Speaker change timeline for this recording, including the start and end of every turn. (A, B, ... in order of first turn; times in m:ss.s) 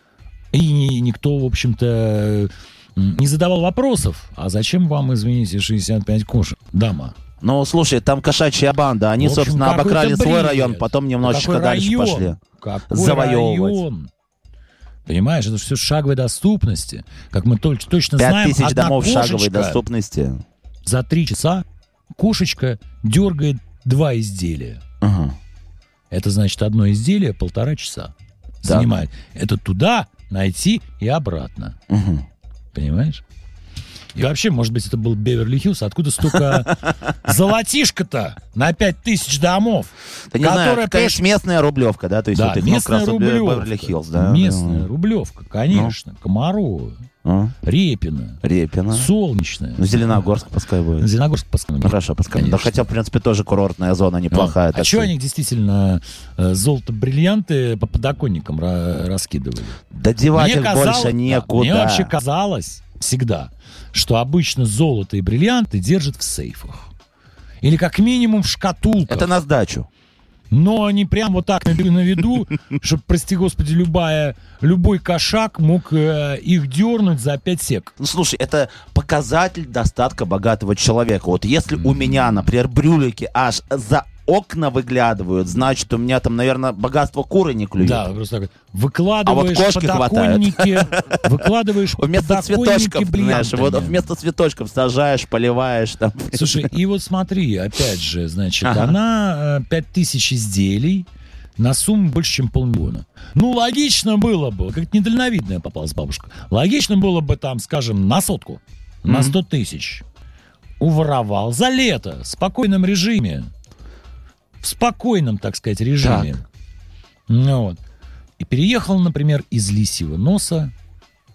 0:00.5-0:07.2 A
0:07.4-0:12.4 B
0:09.2-0:14.1 A
0:12.9-0:13.8 B
0:15.0-0:19.8 A
0:18.2-0:20.4 B
0:20.8-0:24.8 A
0:25.0-0:25.4 B
0:26.1-0:31.8 A
0:28.6-0:28.9 B
0:31.9-0:32.2 B
0:32.7-0:33.2 A
0:34.1-0:41.2 A
0:40.3-0:44.9 B
0:42.3-0:47.0 A
0:45.7-0:46.0 B
0:47.2-0:47.5 B
0:47.6-0:50.3 A
0:48.4-0:49.1 B
0:49.8-0:51.1 B
0:51.0-0:52.8 A
0:51.8-0:55.1 B
0:54.3-0:59.8 A
0:59.9-1:02.1 B
1:00.3-1:06.9 A
1:07.6-1:09.3 A
1:09.1-1:09.9 B
1:10.5-1:17.9 A
1:18.0-1:28.1 B
1:21.8-1:22.4 A
1:27.8-1:34.1 A
1:29.2-1:31.2 B
1:32.0-1:36.7 B
1:36.3-1:50.0 A
1:38.6-1:38.9 B
1:49.0-1:49.4 B
1:50.8-1:53.5 A
1:54.6-1:56.4 A
1:56.0-1:56.3 B
1:57.3-1:57.8 A
1:58.4-2:00.7 A